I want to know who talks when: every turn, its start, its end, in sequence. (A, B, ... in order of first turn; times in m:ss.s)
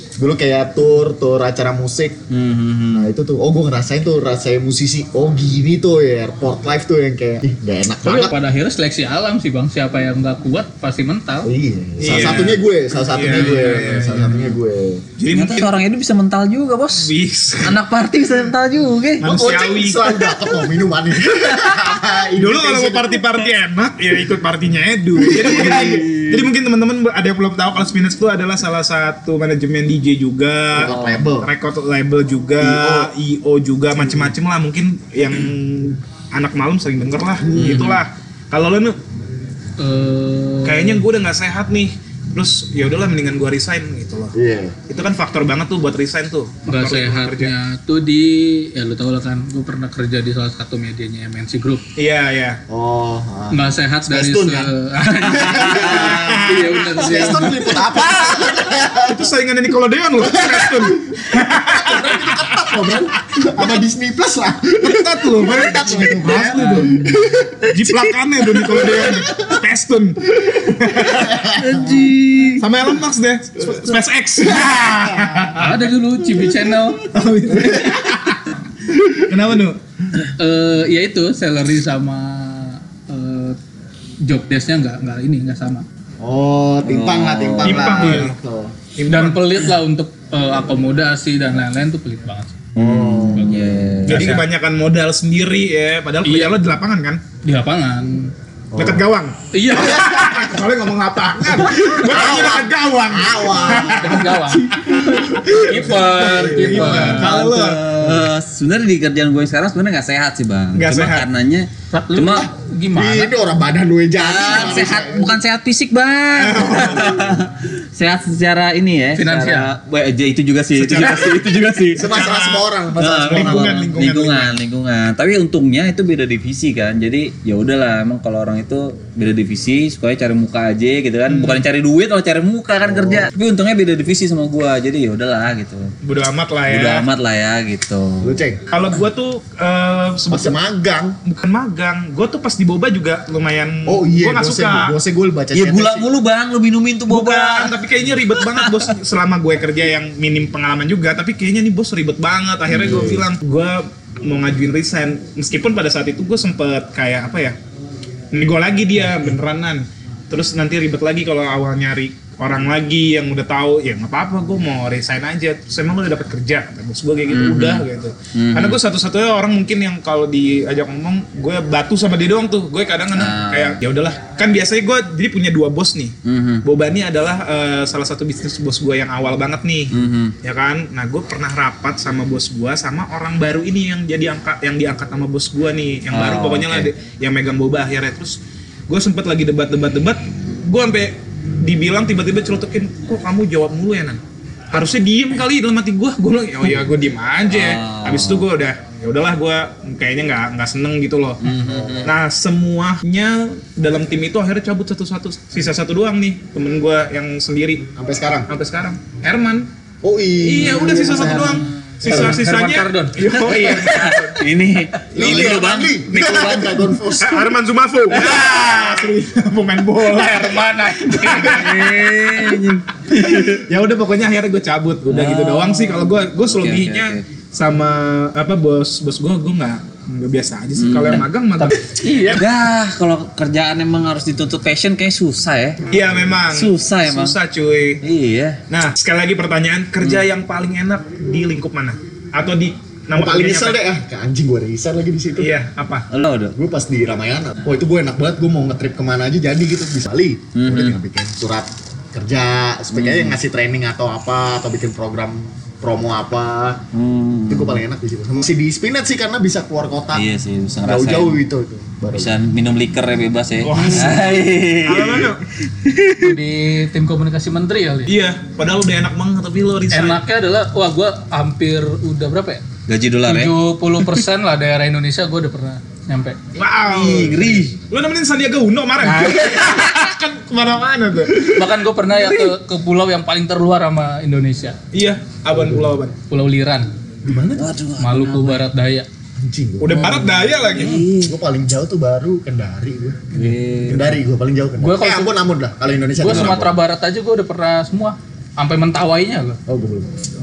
0:00.2-0:02.2 A
0:02.3-0:03.1 B
0:02.9-0:08.4 A
0:08.0-0:11.5 C
0:11.4-0:15.1 A
0:12.0-0:14.5 D
0:13.3-0:14.1 C
0:15.2-0:15.7 D
0:15.3-0:17.1 B
0:16.9-0:17.8 D
0:17.6-0:19.3 B
0:19.2-0:20.4 D
0:19.2-0:23.2 A
0:21.3-0:21.8 B
0:22.4-0:39.0 D
0:25.2-0:26.1 A
0:25.3-0:26.5 B
0:30.7-0:31.5 A
0:30.8-0:31.2 B
0:32.6-0:33.1 A
0:37.4-0:38.0 A
0:37.5-0:38.0 B
0:39.8-0:41.0 C
0:40.6-0:44.3 D
0:44.4-0:44.8 A
0:44.9-0:47.5 D
0:46.7-0:51.8 C
0:52.0-0:52.6 D
0:52.7-0:59.3 A
0:53.5-0:57.8 C
0:55.4-0:56.4 B
0:56.0-0:56.8 D
0:58.4-1:03.0 D
1:00.2-1:07.7 A
1:04.8-1:06.9 D
1:06.3-1:07.1 C
1:07.7-1:11.4 D
1:08.6-1:09.5 A
1:11.1-1:12.0 A
1:11.4-1:12.6 B
1:12.6-1:15.8 D
1:14.5-1:15.5 A
1:15.6-1:17.0 C
1:17.1-1:18.4 D
1:17.5-1:18.0 A
1:18.9-1:19.8 D
1:20.4-1:23.6 C
1:24.2-1:25.8 C
1:26.2-1:28.8 A
1:26.8-1:28.2 B
1:27.6-1:28.4 D
1:29.0-1:29.4 D
1:29.1-1:32.6 C
1:32.8-1:33.8 A
1:32.8-1:34.4 B
1:34.1-1:34.4 C
1:34.1-1:37.2 D
1:36.2-1:36.6 C
1:37.4-1:38.3 C
1:38.7-1:39.0 A
1:38.8-1:47.8 D
1:39.5-1:40.2 C
1:41.6-1:47.5 A
1:43.9-1:44.8 C
1:45.5-1:47.3 C
1:46.8-1:52.5 B
1:48.0-1:48.3 A
1:50.7-1:51.3 D
1:51.9-1:53.3 C
1:52.9-1:55.4 A
1:54.2-2:02.1 B
1:56.3-1:57.4 D
1:59.2-1:59.8 C
2:00.8-2:02.7 D
2:01.9-2:03.9 A
2:03.0-2:15.9 B
2:03.2-2:04.6 D
2:11.3-2:11.6 D
2:12.8-2:13.3 A
2:16.0-2:17.0 D
2:16.7-2:18.4 B
2:18.2-2:18.6 A
2:18.7-2:20.6 D
2:20.3-2:21.2 A
2:21.2-2:24.9 D
2:23.9-2:26.1 A
2:25.5-2:27.8 B
2:27.1-2:37.6 D
2:28.4-2:28.9 B
2:32.7-2:33.2 A
2:32.7-2:33.2 B
2:38.3-3:08.4 D
2:47.3-2:48.8 B
2:53.1-2:53.8 B
2:56.2-2:56.6 B
2:59.9-3:00.3 B
3:06.1-3:06.9 B
3:08.9-3:14.2 D
3:14.7-3:21.4 D
3:17.5-3:18.5 B
3:21.4-3:22.1 B
3:21.4-3:22.1 A
3:22.0-3:27.9 D
3:28.0-3:28.5 A
3:28.5-3:29.7 D
3:30.0-3:31.7 A
3:30.4-3:34.4 D
3:31.1-3:32.2 B
3:32.0-3:33.5 C
3:33.3-3:36.9 B
3:35.1-3:37.5 A
3:35.2-3:36.2 D
3:37.2-3:42.5 D
3:38.4-3:38.6 B
3:40.3-3:41.7 C
3:41.2-3:43.6 B
3:43.1-3:52.4 D
3:45.1-3:47.2 B
3:50.8-3:57.4 B
3:52.0-3:52.4 C
3:55.9-3:58.0 D
3:58.0-3:58.6 B
3:58.7-4:03.8 D
4:03.1-4:05.5 A
4:05.4-4:06.1 D
4:06.1-4:06.5 B
4:06.5-4:16.8 A
4:10.6-4:11.0 B
4:12.9-4:13.4 B
4:16.9-4:17.8 B
4:17.5-4:20.3 A
4:20.1-4:21.4 B
4:20.8-4:22.4 A
4:22.1-4:26.4 B
4:23.6-4:25.4 D
4:26.2-4:28.1 C
4:28.1-4:30.2 D
4:29.9-4:32.6 C
4:32.9-4:34.2 B
4:33.2-4:36.4 C
4:36.6-4:41.6 D
4:36.9-4:37.8 B
4:37.1-4:37.9 A
4:39.2-4:39.8 B
4:41.5-4:44.8 C
4:42.1-4:42.5 B
4:44.9-4:46.2 D
4:46.3-4:46.9 C
4:47.2-4:47.8 A
4:47.6-4:48.7 B
4:48.0-4:49.1 C
4:49.4-4:56.8 A
4:49.8-4:51.1 D
4:50.7-4:51.4 B
4:53.3-4:54.2 B
4:54.8-4:55.3 C
4:56.2-4:59.6 C
4:56.3-4:56.6 B
4:59.7-5:00.1 A